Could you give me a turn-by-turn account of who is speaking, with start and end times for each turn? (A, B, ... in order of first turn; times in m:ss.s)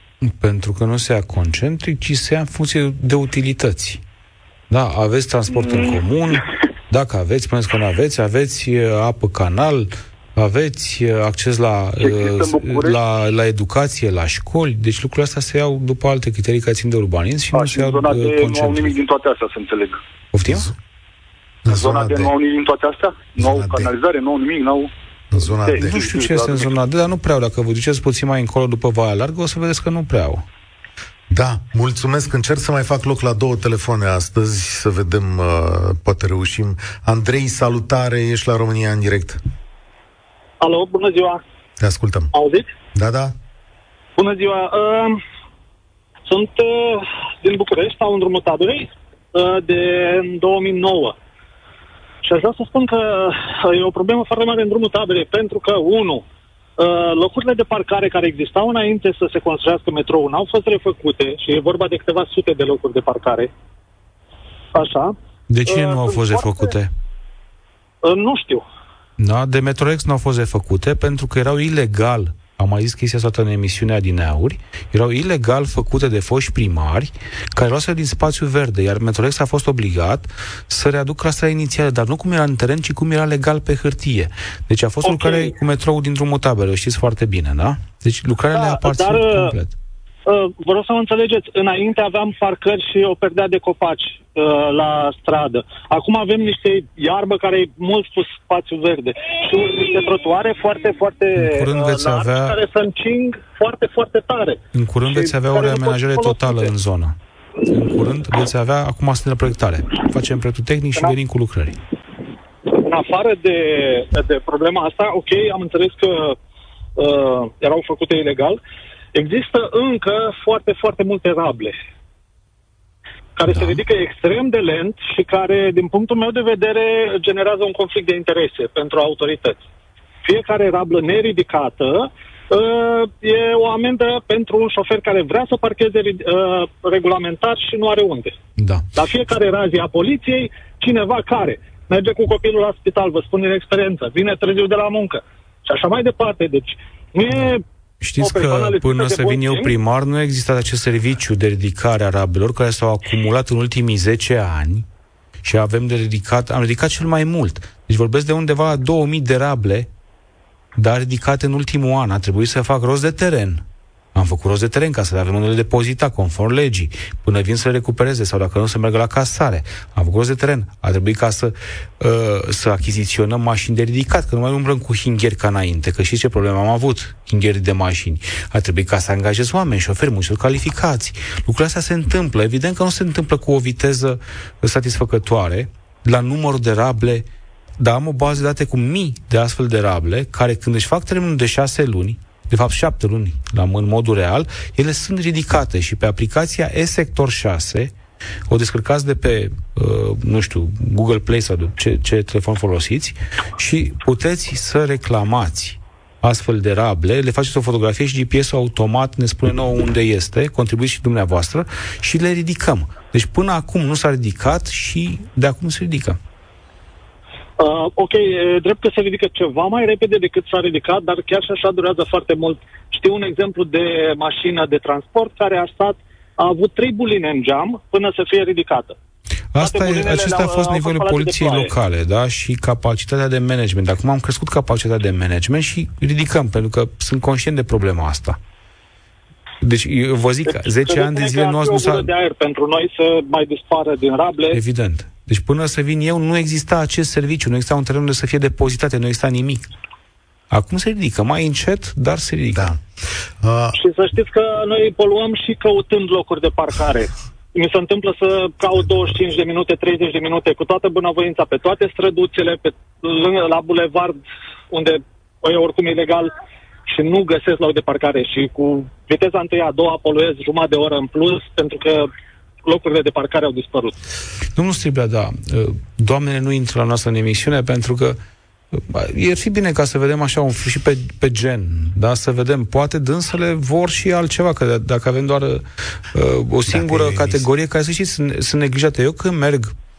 0:00.2-0:04.0 A
0:04.7-0:19.0 A
0:05.5-0:06.0 B
0:12.0-0:13.0 B
0:17.5-0:20.0 B
0:20.3-0:20.7 A
0:20.5-0:20.7 C
0:21.6-0:22.3 C
0:21.7-0:26.7 B
0:23.4-0:23.9 C
0:25.3-0:26.0 C
0:25.8-0:30.4 A
0:31.3-0:39.4 C
0:40.6-0:41.4 D
0:41.8-0:42.3 C
0:42.3-0:42.7 D
0:42.9-0:43.4 C
0:44.2-0:45.2 D
0:46.3-0:51.2 D
0:52.2-0:56.2 D
0:56.8-1:03.5 D
1:04.8-1:06.8 D
1:05.5-1:06.9 A
1:08.0-1:08.7 D
1:09.2-1:29.8 A
1:25.0-1:25.6 D
1:28.5-1:29.6 D
1:30.3-1:46.7 D
1:41.4-1:42.6 A
1:44.7-1:47.2 A
1:47.7-1:51.8 A
1:52.7-1:56.4 D
1:57.0-1:58.6 D
1:59.1-2:01.8 D
2:03.4-2:09.6 D
2:03.5-2:03.8 A
2:10.2-2:18.4 D
2:18.6-2:18.9 A
2:19.0-2:27.6 D
2:27.3-2:34.9 A
2:28.2-2:29.8 D
2:35.4-2:39.9 A
2:40.8-2:43.6 A
2:44.2-3:07.3 A
3:07.8-3:17.9 A
3:18.5-3:36.2 A
3:37.6-3:49.0 D
3:49.5-3:58.4 A
3:49.6-3:51.8 D
3:59.6-4:02.1 A
4:00.5-4:04.6 D
4:04.5-4:09.7 A
4:10.5-4:12.8 A
4:12.6-4:12.8 C
4:13.4-4:13.8 C
4:13.8-4:26.3 D
4:26.9-4:32.1 D
4:32.6-4:34.0 D
4:34.6-4:38.2 A
4:38.7-4:49.7 A
4:46.7-4:47.5 C